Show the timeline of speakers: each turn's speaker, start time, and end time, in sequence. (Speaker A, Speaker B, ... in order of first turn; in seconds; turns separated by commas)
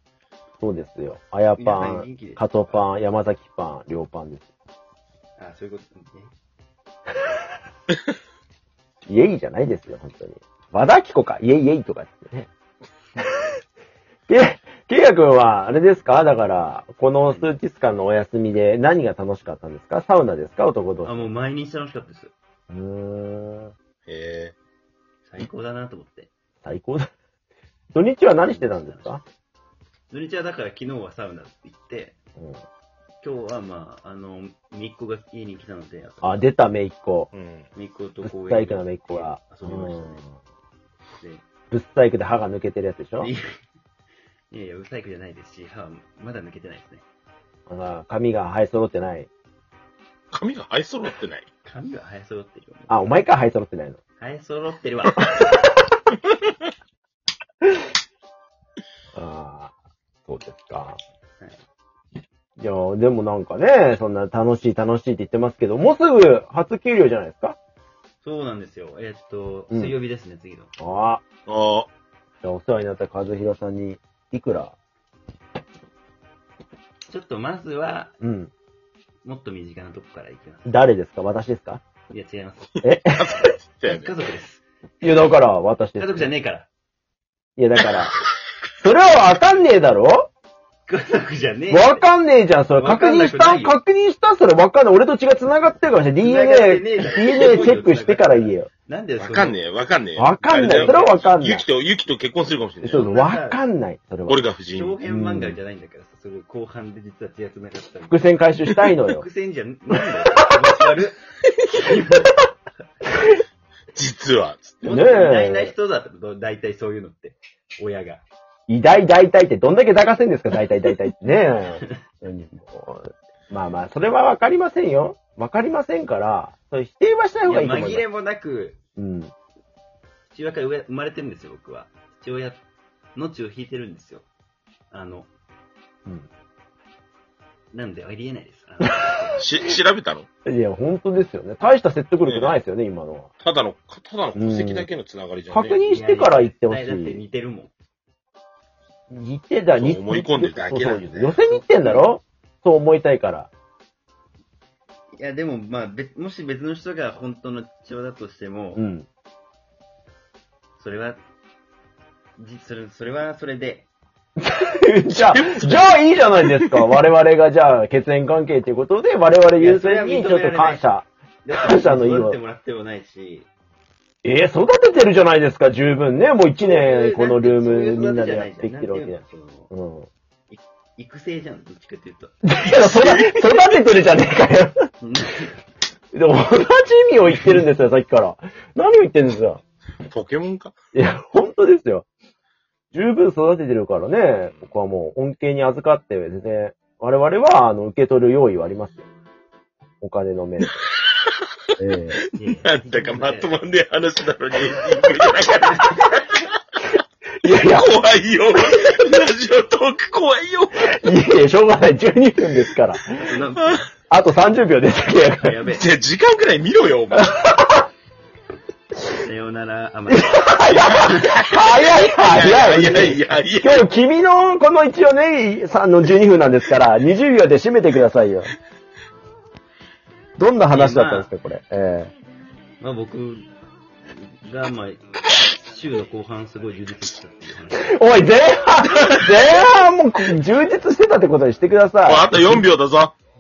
Speaker A: 0.6-4.5, Speaker B: 1.6-2.9, Speaker B: 5.4-6.3, Speaker A: 9.1-12.5, Speaker A: 14.3-21.3, Speaker B: 17.3-17.5, Speaker B: 21.0-22.3, Speaker A: 22.7-23.7, Speaker C: 24.1-24.5, Speaker B: 25.2-26.3, Speaker A: 26.6-27.1, Speaker A: 27.9-29.2, Speaker B: 28.4-29.2, Speaker B: 30.1-32.2, Speaker A: 32.4-32.6, Speaker B: 33.2-36.4, Speaker A: 36.2-37.3, Speaker C: 37.3-37.7, Speaker B: 37.8-40.2, Speaker A: 38.2-40.3, Speaker A: 41.7-43.3, Speaker B: 43.2-43.6, Speaker B: 44.5-47.0, Speaker A: 47.7-49.3, Speaker C: 50.3-51.5, Speaker B: 51.6-53.1, Speaker A: 52.9-54.0, Speaker B: 54.2-55.5, Speaker A: 55.3-55.7, Speaker A: 59.1-59.7, Speaker A: 60.3-61.0, Speaker A: 62.6-67.6, Speaker B: 68.2-70.7, Speaker A: 70.8-71.2, Speaker C: 71.5-71.9, Speaker A: 72.4-74.8, Speaker B: 77.1-78.2, Speaker A: 78.2-78.5, Speaker B: 79.2-80.9, Speaker A: 80.7-81.8, Speaker B: 82.1-82.8, Speaker C: 82.8-84.1, Speaker A: 82.8-83.4, Speaker B: 83.8-84.6, Speaker A: 85.0-86.3, Speaker B: 86.0-86.7, Speaker A: 87.6-88.2, Speaker A: 88.8-90.3, Speaker B: 90.9-92.1, Speaker A: 91.7-98.7, Speaker B: 92.7-93.8, Speaker B: 96.2-99.6, Speaker C: 99.2-103.1, Speaker A: 100.2-101.7, Speaker B: 100.5-101.3, Speaker A: 102.8-104.4, Speaker B: 102.9-103.6, Speaker C: 104.3-105.0, Speaker B: 104.7-108.3, Speaker A: 105.0-105.6, Speaker A: 108.1-109.2, Speaker B: 109.1-112.4, Speaker C: 114.0-115.0, Speaker B: 114.8-118.2, Speaker A: 114.8-115.7, Speaker A: 118.7-128.1, Speaker B: 127.5-128.8, Speaker A: 129.0-129.3, Speaker B: 130.3-132.6, Speaker B: 133.2-134.3, Speaker B: 134.9-135.3, Speaker B: 137.7-139.4, Speaker C: 139.4-140.3, Speaker A: 140.5-143.3, Speaker C: 142.2-142.6, Speaker C: 143.4-145.8, Speaker A: 144.3-144.9, Speaker A: 145.5-147.2, Speaker B: 145.8-147.7, Speaker A: 149.1-153.5, Speaker C: 149.7-151.4, Speaker B: 151.5-152.1, Speaker B: 155.2-158.8, Speaker A: 158.8-159.1, Speaker B: 160.8-161.2, Speaker B: 162.4-163.9, Speaker A: 164.4-172.4, Speaker C: 165.1-166.9, Speaker B: 169.6-170.9, Speaker B: 171.4-173.5, Speaker A: 174.2-180.1, Speaker B: 176.6-179.7, Speaker B: 180.5-182.4, Speaker A: 182.4-184.9, Speaker C: 182.6-183.6, Speaker B: 185.0-185.6, Speaker A: 186.1-189.6, Speaker B: 187.3-187.7, Speaker C: 190.0-190.7, Speaker A: 190.9-192.1, Speaker A: 192.9-199.1, Speaker A: 200.0-200.8, Speaker A: 201.8-202.2, Speaker C: 202.2-206.5, Speaker B: 202.4-203.6, Speaker A: 207.4-208.0, Speaker C: 207.4-211.1, Speaker A: 210.8-213.4, Speaker B: 213.2-213.9, Speaker A: 214.1-215.6, Speaker B: 215.1-215.8, Speaker C: 215.7-217.3, Speaker A: 217.1-217.9, Speaker B: 219.2-221.4, Speaker A: 220.1-228.5, Speaker C: 220.6-223.9, Speaker A: 230.4-232.1, Speaker B: 230.7-231.3, Speaker B: 232.8-233.5, Speaker B: 234.1-238.0, Speaker A: 237.8-242.7, Speaker C: 242.0-243.1